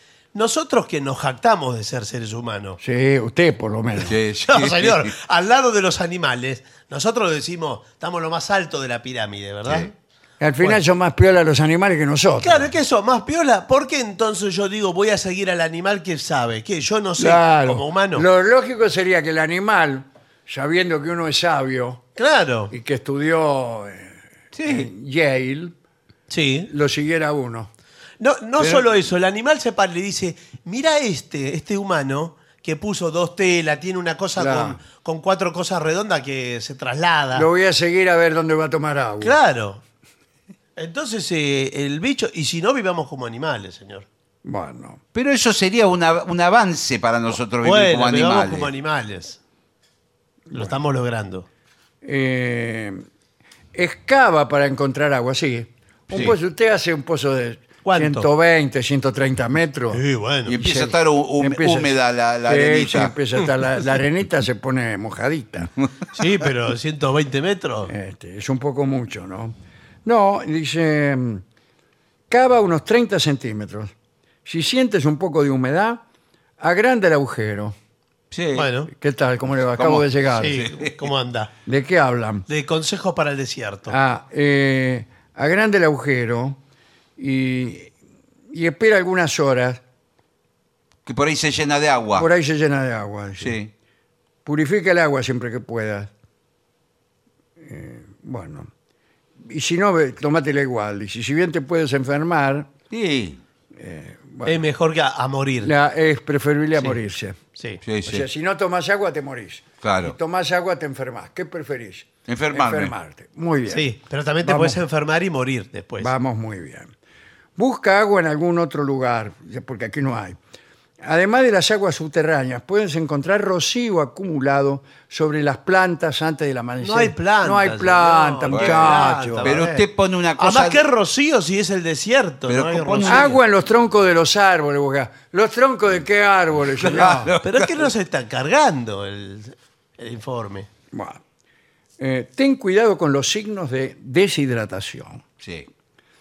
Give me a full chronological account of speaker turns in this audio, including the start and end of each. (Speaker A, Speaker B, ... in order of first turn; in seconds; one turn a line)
Speaker A: 0.3-2.8
Speaker B: 2.8-4.1
Speaker C: 4.0-5.1
Speaker A: 4.5-9.9
Speaker C: 9.7-9.9
Speaker B: 10.4-12.7
Speaker A: 12.4-18.2
Speaker B: 17.2-22.0
Speaker A: 22.2-22.7
Speaker B: 22.7-25.7
Speaker C: 24.6-24.9
Speaker A: 26.3-26.7
Speaker B: 26.7-27.7
Speaker A: 28.2-37.5
Speaker B: 28.6-28.9
Speaker B: 34.4-34.8
Speaker B: 37.3-39.4
Speaker A: 39.2-39.8
Speaker A: 40.8-44.1
Speaker B: 44.4-45.0
Speaker C: 45.1-48.7
Speaker A: 47.6-49.4
Speaker B: 50.5-50.8
Speaker A: 50.5-51.5
Speaker B: 52.0-53.0
Speaker B: 53.7-65.7
Speaker A: 56.1-56.4
Speaker A: 57.8-58.3
Speaker A: 59.9-60.6
Speaker C: 60.5-63.2
Speaker A: 66.1-67.9
Speaker B: 67.9-71.4
Speaker B: 72.3-73.9
Speaker B: 74.5-76.0
Speaker B: 76.6-77.8
Speaker C: 78.3-78.7
Speaker A: 78.5-78.9
Speaker B: 78.9-80.7
Speaker C: 79.8-81.1
Speaker A: 80.3-81.5
Speaker B: 81.7-82.5
Speaker A: 82.5-84.0
Speaker B: 83.9-86.6
Speaker B: 87.2-87.9
Speaker B: 88.5-89.8
Speaker C: 91.1-92.3
Speaker B: 92.2-93.6
Speaker C: 93.4-93.7
Speaker B: 94.5-96.1
Speaker B: 97.6-98.7
Speaker B: 99.4-102.7
Speaker C: 102.9-103.4
Speaker B: 103.7-104.6
Speaker A: 104.5-105.7
Speaker B: 105.6-107.4
Speaker A: 107.6-107.8
Speaker C: 107.8-108.3
Speaker B: 108.1-113.9
Speaker C: 109.8-110.2
Speaker C: 112.3-113.0
Speaker A: 113.7-116.1
Speaker B: 114.4-114.8
Speaker B: 116.0-116.9
Speaker B: 117.6-120.4
Speaker B: 121.0-129.5
Speaker A: 126.8-129.9
Speaker C: 128.5-130.8
Speaker A: 130.4-133.4
Speaker C: 132.5-133.4
Speaker B: 133.0-137.3
Speaker C: 136.8-137.9
Speaker A: 137.4-140.7
Speaker B: 140.9-141.2
Speaker B: 142.0-145.2
Speaker C: 145.4-145.7